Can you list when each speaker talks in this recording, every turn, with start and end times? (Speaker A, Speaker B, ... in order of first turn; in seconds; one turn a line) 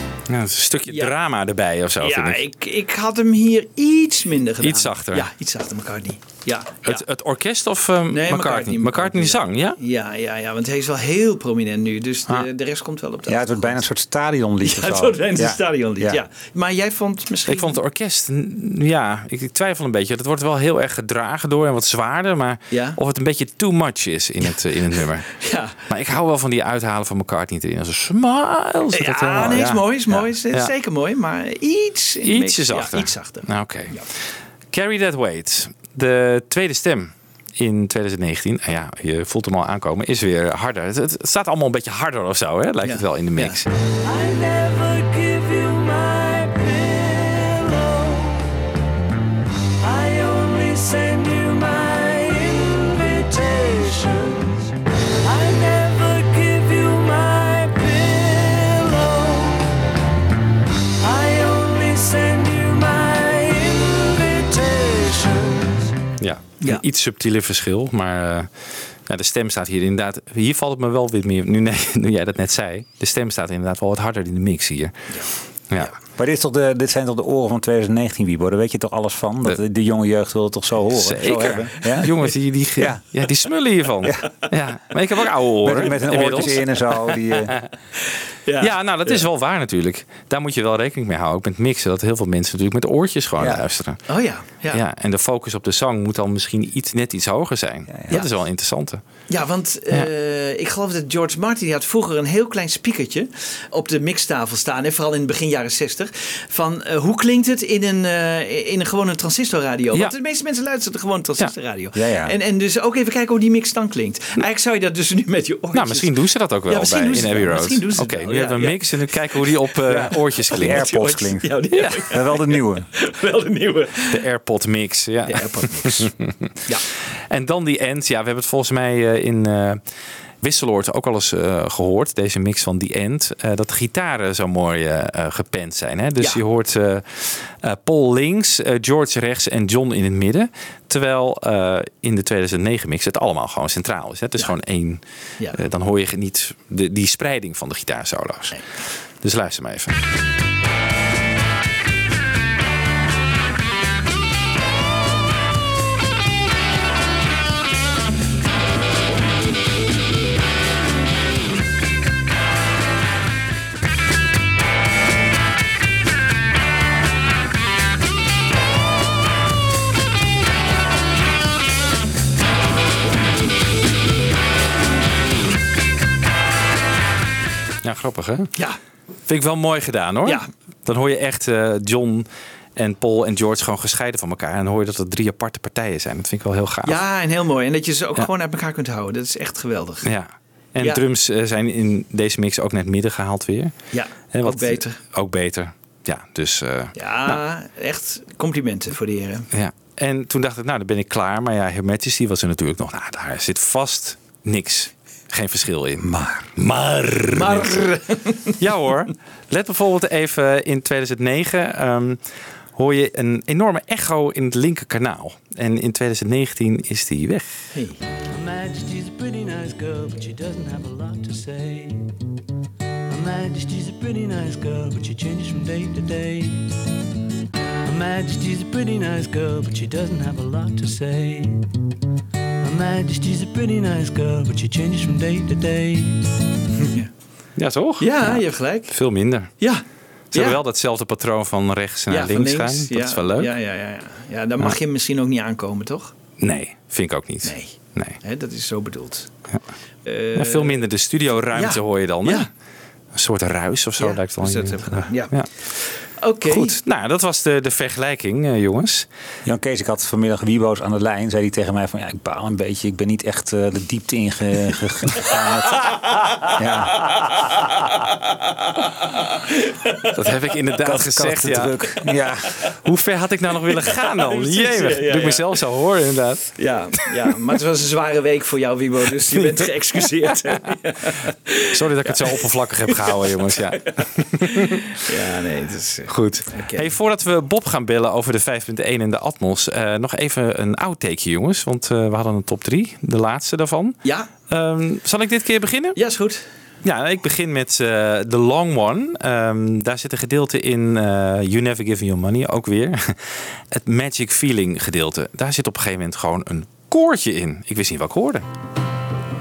Speaker A: 0.3-2.4
Speaker B: 0.9-1.1
Speaker B: 2.0-7.0
Speaker A: 4.6-5.3
Speaker A: 6.8-9.8
Speaker B: 8.1-13.8
Speaker C: 13.3-16.2
Speaker B: 14.6-17.8
Speaker A: 17.5-25.3
Speaker B: 22.7-23.0
Speaker B: 25.3-25.8
Speaker A: 25.9-30.7
Speaker B: 28.9-34.1
Speaker A: 32.2-43.7
Speaker B: 42.8-43.6
Speaker D: 44.0-48.4
Speaker D: 49.8-54.7
Speaker D: 55.2-59.7
Speaker D: 61.0-65.9
Speaker A: 66.2-75.1
Speaker B: 75.1-75.9
Speaker C: 76.2-82.2
Speaker A: 80.9-87.7
Speaker C: 82.8-83.0
Speaker C: 85.6-87.5
Speaker B: 88.5-89.2
Speaker A: 88.6-94.0
Speaker B: 94.1-94.8
Speaker A: 94.7-99.0
Speaker C: 97.9-98.2
Speaker B: 99.3-116.1
Speaker C: 111.9-112.3
Speaker A: 115.7-121.2
Speaker B: 116.7-119.5
Speaker C: 119.9-122.9
Speaker B: 120.5-124.2
Speaker A: 121.7-122.0
Speaker A: 124.1-126.3
Speaker B: 125.3-126.1
Speaker A: 127.3-129.8
Speaker A: 130.4-150.0
Speaker A: 177.8-178.5
Speaker A: 179.3-187.0
Speaker B: 186.8-190.1
Speaker A: 190.0-197.4
Speaker B: 193.9-195.0
Speaker B: 196.9-199.5
Speaker A: 199.5-207.9
Speaker C: 206.0-206.5
Speaker B: 207.3-208.6
Speaker A: 208.6-217.7
Speaker B: 217.7-218.0
Speaker D: 218.3-222.1
Speaker D: 223.1-226.7
Speaker D: 227.8-231.7
Speaker D: 232.6-236.3
Speaker B: 236.8-237.1
Speaker A: 237.6-239.5
Speaker B: 238.0-238.9
Speaker B: 239.6-240.6
Speaker A: 240.3-243.5
Speaker B: 242.1-246.1
Speaker A: 246.4-248.2
Speaker B: 247.4-249.3
Speaker B: 250.1-250.8
Speaker A: 250.4-252.5
Speaker B: 251.5-252.5
Speaker A: 253.1-255.6
Speaker B: 254.0-256.8
Speaker A: 256.5-259.1
Speaker C: 259.4-265.9
Speaker B: 265.8-266.6
Speaker C: 266.5-267.1
Speaker B: 267.1-270.3
Speaker A: 270.1-271.8
Speaker C: 270.8-272.5
Speaker A: 272.8-276.6
Speaker B: 273.9-275.6
Speaker B: 276.6-286.9
Speaker A: 281.7-284.8
Speaker A: 286.1-296.0
Speaker B: 294.0-294.3
Speaker B: 296.0-296.5
Speaker A: 296.8-308.5